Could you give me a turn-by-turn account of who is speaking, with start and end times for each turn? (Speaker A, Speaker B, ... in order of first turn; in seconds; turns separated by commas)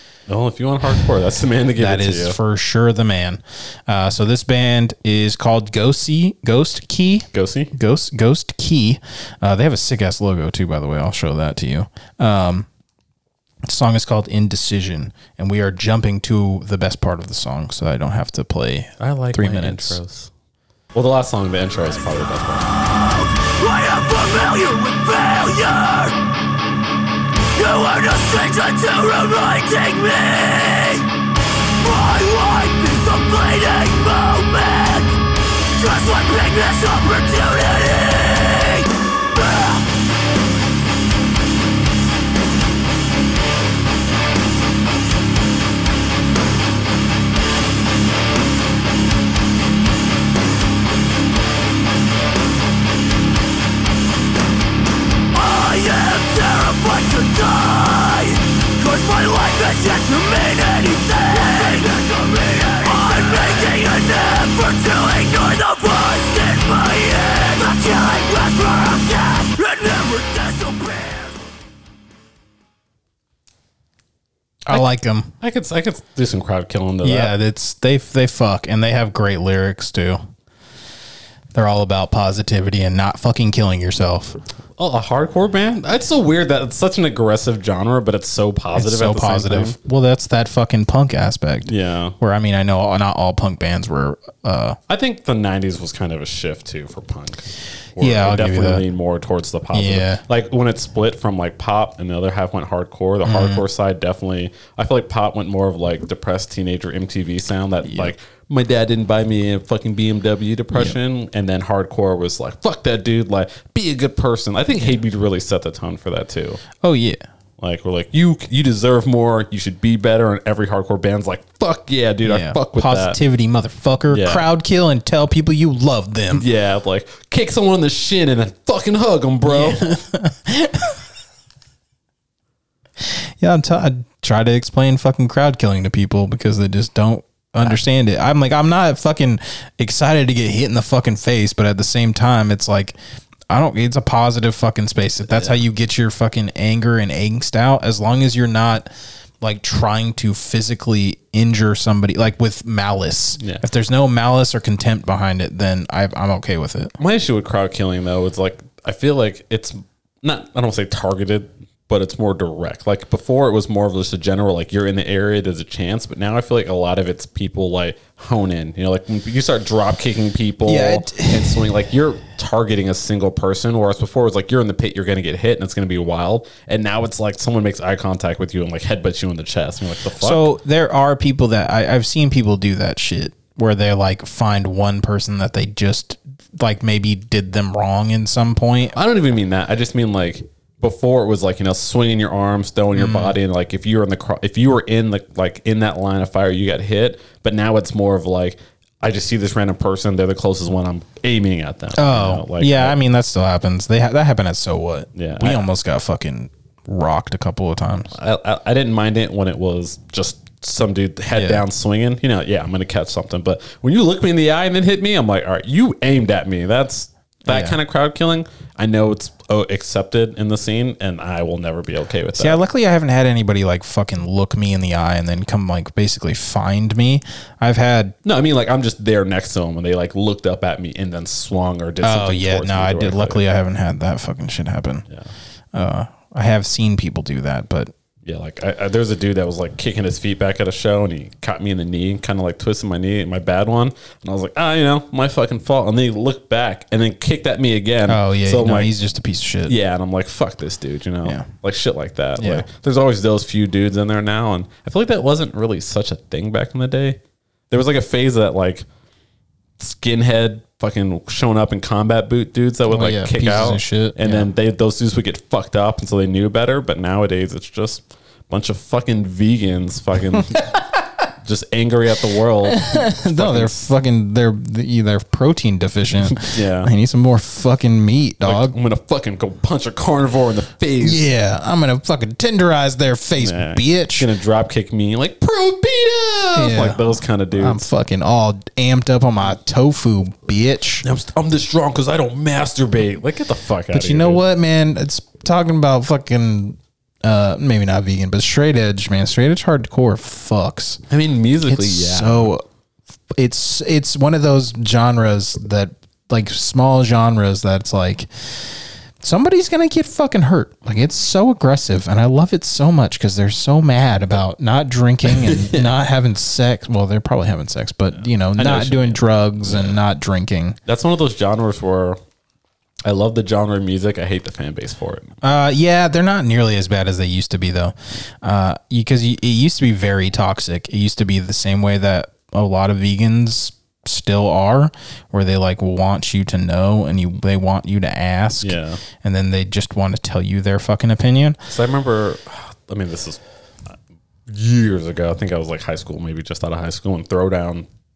Speaker A: 0.3-2.4, Speaker B: 1.8-12.7, Speaker A: 7.3-7.7, Speaker B: 13.7-20.0, Speaker A: 19.0-20.3, Speaker A: 20.9-22.7, Speaker C: 23.1-26.2, Speaker C: 27.5-31.1, Speaker C: 31.8-39.9, Speaker C: 55.3-71.4, Speaker B: 74.7-75.3, Speaker A: 75.4-77.3, Speaker B: 77.0-80.2, Speaker B: 81.5-84.4, Speaker A: 84.8-89.8, Speaker B: 88.7-94.8, Speaker A: 91.6-92.2, Speaker A: 94.9-116.6, Speaker B: 98.0-98.8, Speaker B: 99.7-100.2, Speaker B: 103.2-103.6, Speaker B: 107.8-108.1, Speaker B: 116.8-117.2, Speaker A: 117.6-123.2, Speaker B: 122.2-126.4, Speaker A: 124.1-124.5, Speaker A: 126.3-130.0, Speaker B: 129.4-131.0, Speaker B: 133.0-142.9, Speaker B: 143.5-148.9, Speaker A: 145.3-145.6, Speaker B: 149.4-156.9, Speaker A: 157.0-180.5, Speaker B: 170.6-171.6, Speaker B: 180.2-188.9, Speaker A: 188.9-203.0, Speaker B: 192.9-193.3, Speaker B: 201.9-208.1, Speaker A: 205.1-205.6, Speaker A: 208.1-222.6, Speaker B: 211.3-211.6, Speaker B: 217.5-217.8, Speaker B: 222.3-228.2, Speaker A: 228.2-233.4, Speaker B: 232.0-235.1, Speaker B: 235.7-237.9, Speaker A: 238.2-248.9, Speaker B: 248.1-249.7, Speaker A: 249.7-257.2, Speaker B: 252.4-252.7, Speaker A: 257.7-258.9, Speaker A: 259.8-270.7, Speaker B: 262.9-264.5, Speaker A: 271.4-273.8, Speaker B: 272.6-278.8, Speaker A: 276.2-276.9, Speaker A: 278.4-281.2, Speaker B: 281.0-284.3, Speaker A: 283.4-287.9, Speaker B: 286.5-291.0, Speaker A: 291.0-294.4, Speaker B: 293.9-301.0, Speaker A: 301.1-302.5, Speaker B: 301.7-302.6, Speaker B: 303.4-320.8, Speaker A: 315.2-315.9, Speaker A: 318.6-320.0, Speaker A: 320.9-322.2, Speaker A: 323.0-325.4, Speaker B: 325.4-341.6, Speaker A: 338.6-339.0, Speaker A: 341.7-343.9, Speaker A: 344.5-347.9